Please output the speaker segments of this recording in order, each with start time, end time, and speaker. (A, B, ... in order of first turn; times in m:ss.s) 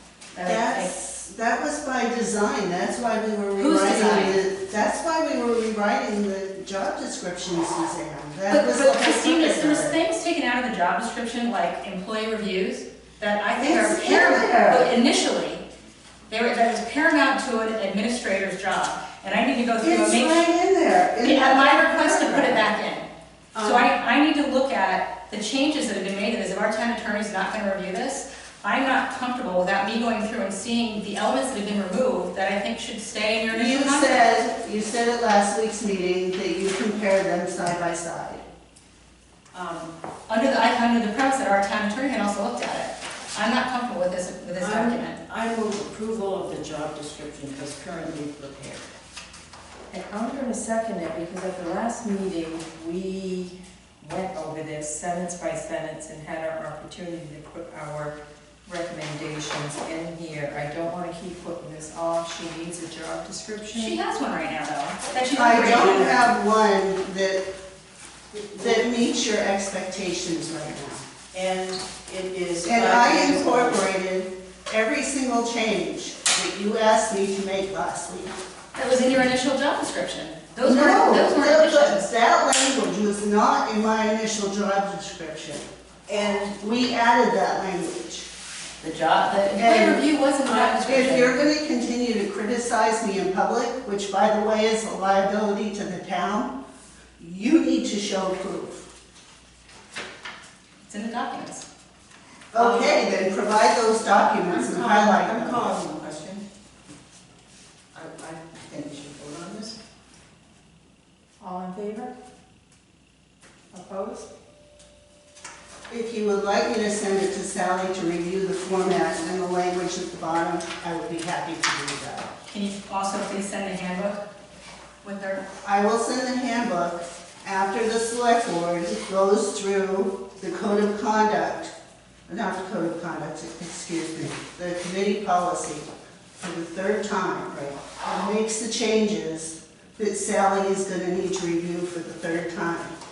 0:00.3-0:00.9 A
0:00.4-0:10.0 B
0:03.6-0:04.4 A
0:08.5-0:15.6 A
0:13.6-0:14.9 B
0:16.3-0:20.5 A
0:19.8-0:22.6 B
0:21.2-0:23.1 A
0:23.6-0:23.9 B
0:23.6-0:34.4 A
0:33.5-0:38.4 B
0:39.5-0:39.9 C
0:40.3-0:45.2 A
0:44.6-0:48.9 C
0:49.9-1:04.0 D
1:03.7-1:06.2 A
1:05.3-1:07.4 B
1:08.3-1:11.0 B
1:11.3-1:13.8 C
1:12.6-1:18.4 B
1:18.8-1:22.1 A
1:20.6-1:25.7 B
1:26.1-1:26.6 C
1:26.5-1:28.3 B
1:28.8-1:31.4 A
1:29.5-1:30.0 B
1:30.5-1:30.8 C
1:30.7-1:36.6 B
1:37.2-1:38.8 B
1:40.9-1:41.6 A
1:42.5-1:45.7 B
1:42.6-1:42.9 C
1:44.5-1:46.4 C
1:47.9-1:49.8 C
1:51.4-1:52.1 D
1:53.7-1:54.3 D
1:55.9-2:02.3 B
2:02.5-2:04.2 A
2:05.0-2:05.4 A
2:05.6-2:11.7 B
2:12.3-2:23.0 B